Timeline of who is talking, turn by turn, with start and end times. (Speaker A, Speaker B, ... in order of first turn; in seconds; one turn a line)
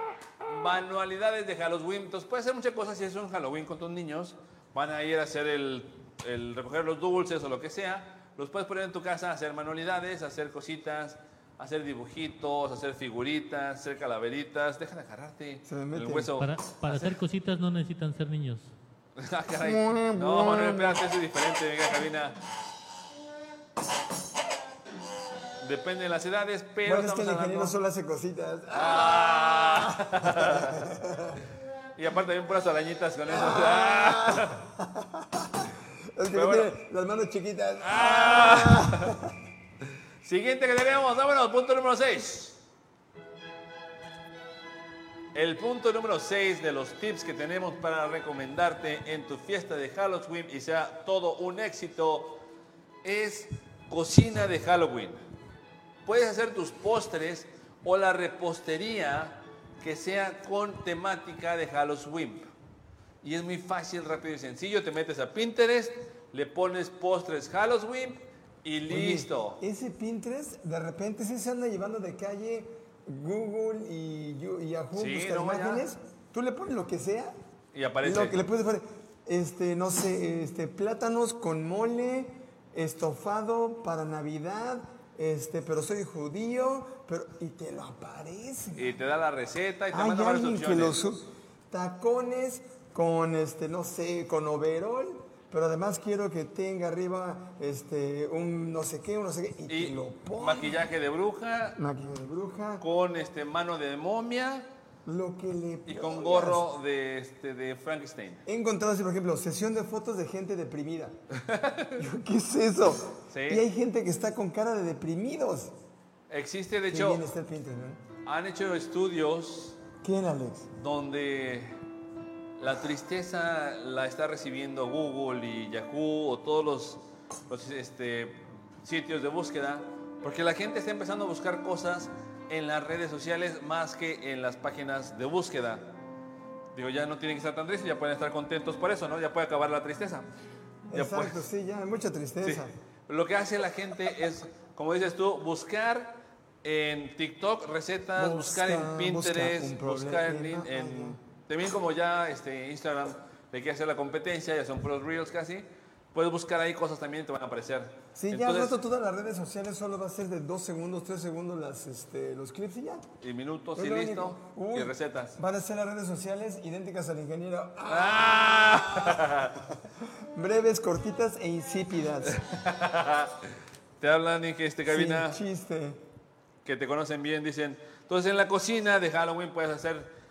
Speaker A: 0.5-17.0
Speaker B: 15.7-16.4
Speaker C: 16.4-18.7
Speaker A: 19.2-22.4
Speaker B: 19.6-21.0
Speaker A: 25.6-27.8
Speaker B: 26.9-31.4
Speaker A: 28.7-30.9
Speaker A: 32.0-34.6
Speaker B: 33.3-39.4
Speaker A: 36.3-36.7
Speaker A: 37.8-39.2
Speaker A: 40.2-42.6
Speaker A: 45.3-52.4
Speaker A: 53.0-55.2
Speaker A: 56.0-62.5
Speaker A: 63.2-69.6
Speaker B: 68.9-77.3
Speaker A: 74.9-75.9
Speaker A: 77.7-78.4
Speaker B: 78.0-89.0
Speaker A: 88.8-91.0
Speaker B: 89.9-100.8
Speaker A: 99.7-101.8
Speaker B: 101.8-102.8
Speaker A: 102.8-104.7
Speaker B: 105.0-106.7
Speaker A: 105.9-108.4
Speaker B: 108.5-111.2
Speaker A: 111.3-112.0
Speaker B: 112.0-115.7
Speaker A: 113.3-113.7
Speaker A: 116.3-117.2
Speaker B: 116.9-118.0
Speaker A: 118.2-119.8
Speaker B: 120.0-120.7
Speaker A: 120.8-121.8
Speaker A: 122.6-135.9
Speaker A: 136.7-140.3
Speaker A: 140.9-141.4
Speaker B: 140.9-142.7
Speaker A: 142.4-158.8
Speaker B: 148.2-151.2
Speaker B: 158.2-163.1
Speaker A: 163.2-165.4
Speaker B: 163.8-172.4
Speaker A: 167.9-169.6
Speaker A: 172.3-175.4
Speaker B: 174.9-176.0
Speaker A: 176.7-180.1